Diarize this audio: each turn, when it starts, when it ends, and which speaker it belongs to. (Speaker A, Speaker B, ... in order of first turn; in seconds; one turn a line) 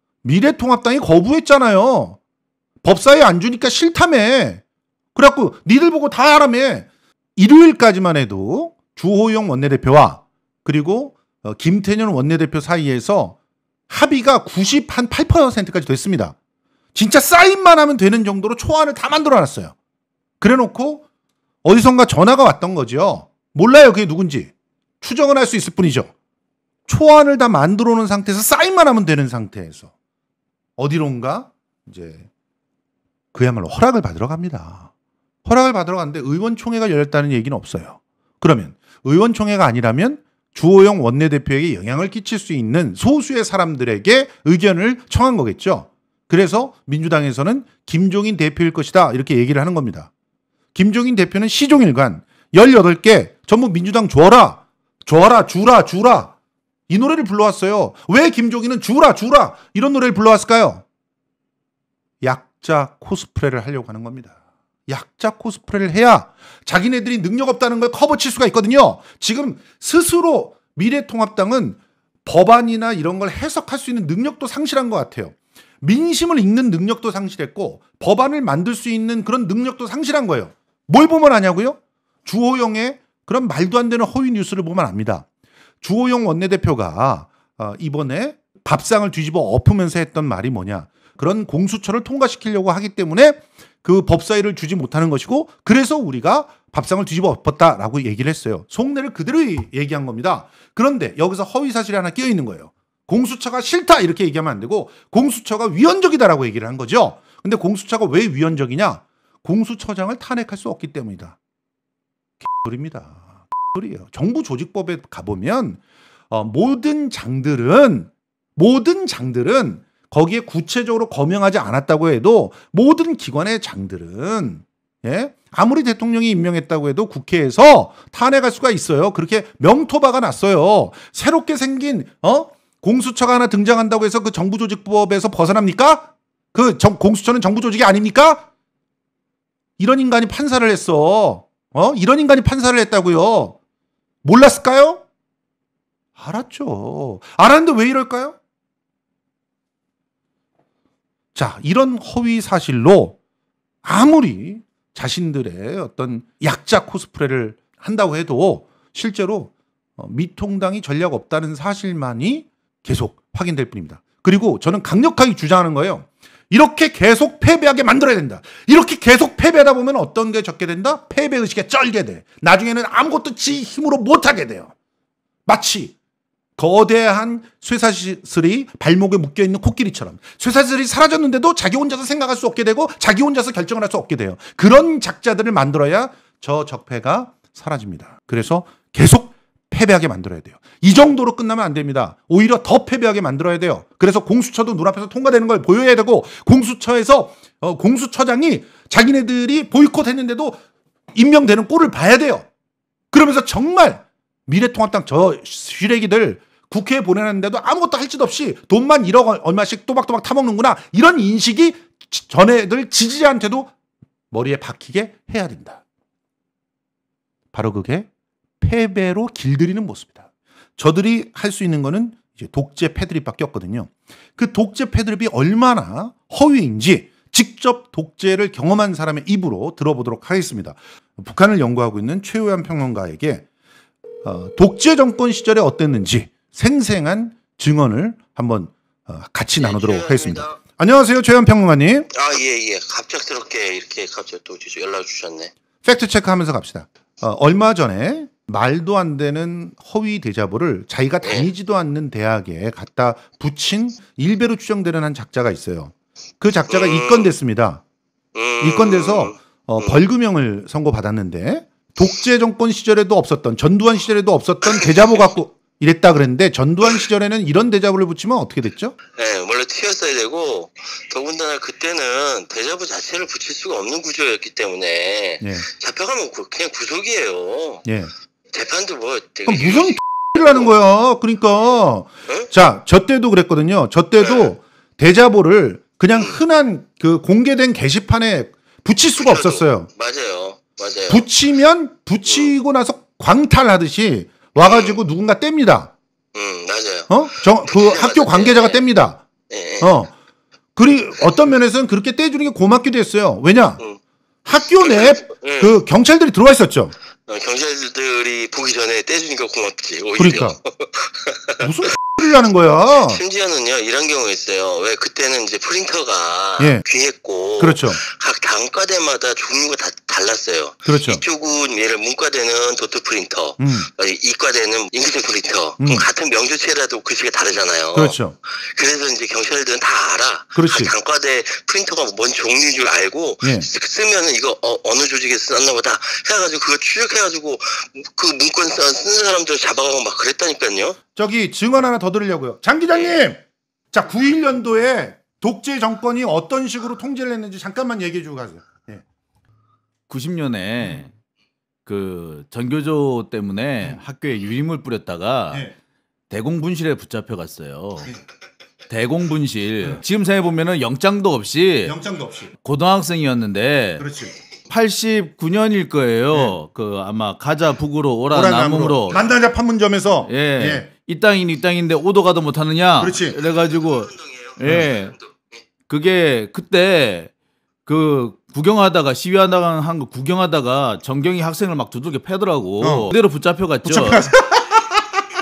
Speaker A: 0.2-2.2
Speaker A: 2.8-4.6
Speaker A: 5.1-13.4
Speaker A: 13.9-16.4
Speaker A: 16.9-19.7
Speaker A: 20.4-21.0
Speaker A: 21.6-26.1
Speaker A: 26.9-29.9
Speaker A: 30.8-32.2
Speaker A: 33.3-34.9
Speaker A: 35.4-50.1
Speaker A: 50.7-56.3
Speaker A: 56.9-60.8
Speaker A: 62.2-64.3
Speaker A: 64.9-85.3
Speaker A: 85.8-111.3
Speaker A: 112.4-138.5
Speaker A: 139.8-143.6
Speaker A: 144.2-145.0
Speaker A: 146.2-148.4
Speaker A: 151.3-153.2
Speaker A: 153.8-174.7
Speaker A: 175.4-175.9
Speaker A: 176.6-200.6
Speaker A: 201.1-202.5
Speaker A: 203.1-213.7
Speaker A: 214.3-215.8
Speaker A: 217.5-218.1
Speaker A: 218.6-220.2
Speaker A: 220.8-233.4
Speaker A: 234.2-242.1
Speaker B: 239.6-240.6
Speaker B: 242.1-245.5
Speaker A: 245.8-257.8
Speaker B: 251.2-251.5
Speaker B: 256.7-257.3
Speaker B: 258.3-260.0
Speaker A: 258.6-268.9
Speaker B: 264.6-265.1
Speaker B: 269.1-277.9
Speaker A: 275.4-275.6
Speaker A: 277.9-278.1
Speaker B: 278.5-280.7
Speaker A: 279.5-289.9
Speaker B: 284.2-284.5
Speaker B: 286.1-286.4
Speaker B: 289.1-291.3
Speaker A: 291.1-295.9
Speaker B: 292.2-292.5
Speaker B: 294.6-295.0
Speaker B: 296.3-298.9
Speaker A: 297.1-299.2
Speaker B: 299.5-299.9
Speaker A: 299.8-300.1
Speaker A: 300.8-303.8
Speaker A: 304.4-306.9
Speaker B: 304.8-305.8
Speaker B: 307.3-311.6
Speaker A: 310.2-310.6
Speaker A: 311.6-313.2
Speaker B: 313.0-340.9
Speaker A: 317.6-318.0
Speaker A: 320.9-321.2
Speaker A: 323.6-323.9
Speaker A: 325.8-326.1
Speaker A: 327.9-328.4
Speaker A: 330.5-330.9
Speaker A: 333.4-333.7
Speaker A: 341.1-349.0
Speaker B: 342.9-343.2
Speaker C: 350.1-351.1
Speaker C: 351.9-355.7
Speaker C: 356.3-358.1
Speaker C: 358.9-361.9
Speaker A: 361.8-362.5
Speaker C: 362.6-364.0
Speaker A: 364.0-364.3
Speaker C: 364.7-369.2
Speaker A: 368.3-370.9
Speaker C: 370.2-375.1
Speaker A: 373.0-373.4
Speaker B: 373.3-375.6
Speaker C: 375.9-377.3
Speaker C: 377.9-384.3
Speaker A: 382.8-383.1
Speaker A: 383.8-385.0